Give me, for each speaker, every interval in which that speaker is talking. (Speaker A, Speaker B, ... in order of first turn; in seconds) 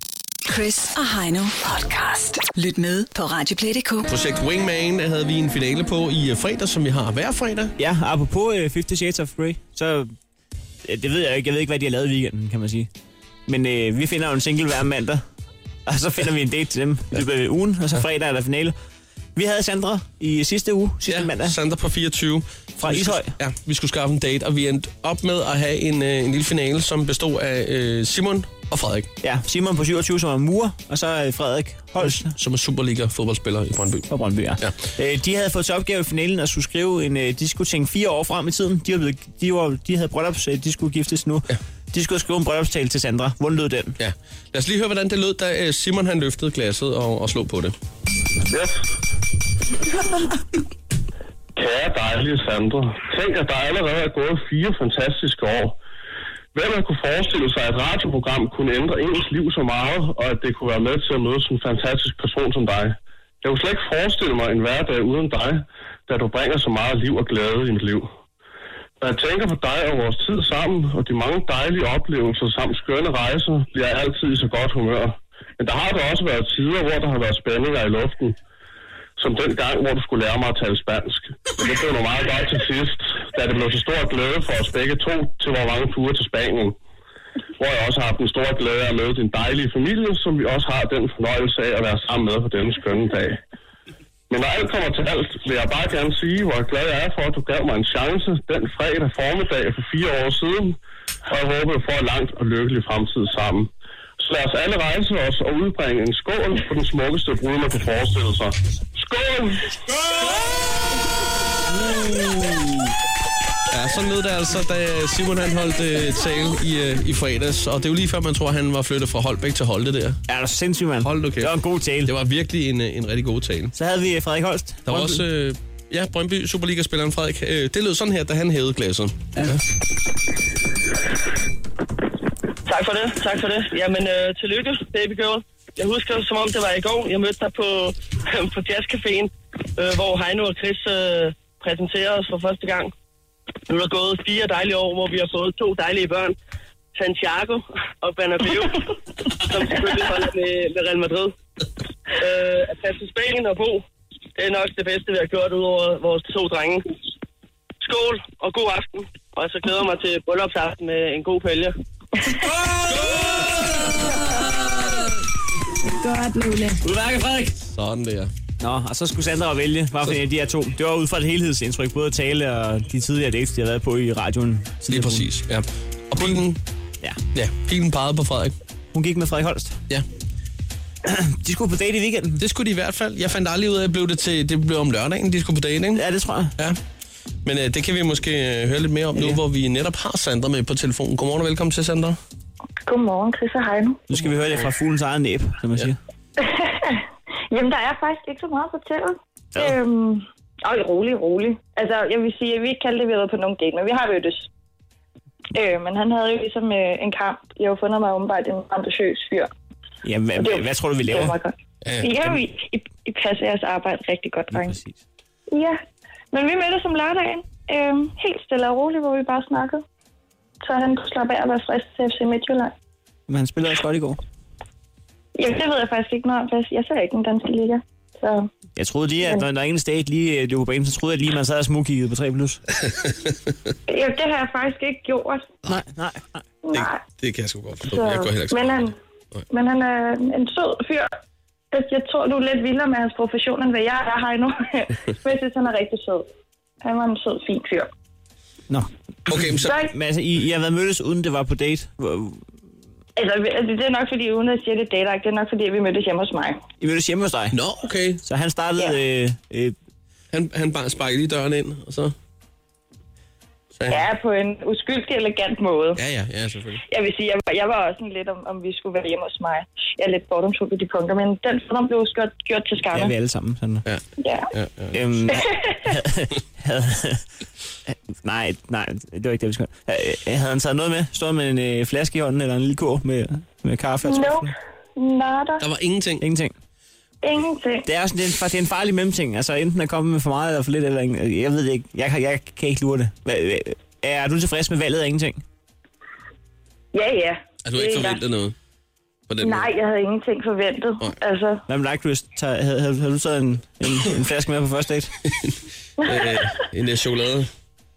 Speaker A: 0.5-4.1
Speaker B: 4.1-7.8, 21.1-29.1, 32.0-34.1, 44.0-47.8, 111.7-112.8, 113.7-120.2, 121.0-123.7, 124.9-129.6, 162.9-164.7, 167.7-168.3, 174.9-176.6, 177.3-178.6, 182.4-186.0, 187.4-192.2, 211.8-212.4, 236.7-239.4, 249.3-249.7, 257.5-258.2, 260.3-262.1, 263.8-264.1, 266.0-266.8, 273.9-275.3, 285.6-286.2, 297.6-298.6, 299.3-299.7, 305.4-307.5
Speaker C: 7.8-10.1, 10.8-12.9, 13.5-15.2, 15.9-18.8, 19.4-21.6, 22.8-23.4, 29.2-32.3, 34.1-44.0, 120.3-122.1, 123.7-125.2, 163.1-163.5, 166.8-167.6, 168.6-175.3, 178.9-179.8, 181.1-182.4, 185.9-186.6, 194.1-196.0, 210.0-211.3, 214.5-215.0, 223.3-224.2, 228.8-232.6, 235.7-236.4, 248.7-252.4, 256.8-257.6, 258.2-259.8, 272.9-273.9, 274.9-277.2, 277.9-284.5, 286.2-286.6, 287.9-295.4, 301.7-305.1
Speaker D: 48.5-48.8, 51.6-55.8, 56.5-68.1, 69.0-78.4, 79.2-86.8, 87.6-93.4, 94.3-109.8
Speaker E: 132.7-142.9, 143.7-146.3, 146.9-151.3, 152.2-153.8, 154.4-156.8, 157.8-161.8
Speaker F: 192.9-194.0, 196.4-204.5, 205.5-209.5, 210.4-214.8, 215.5-215.8, 216.3-219.8, 220.6-222.7, 225.4-228.5, 233.9-235.5, 236.6-237.0, 237.9-238.9, 239.5-241.1, 241.7-246.3, 246.8-247.9, 249.6-249.9, 253.2-256.6, 263.9-266.0, 266.9-273.1, 274.2-274.5, 275.3-275.7, 284.0-285.6, 287.2-287.9, 296.9-298.2, 299.4-301.6, 306.0-306.5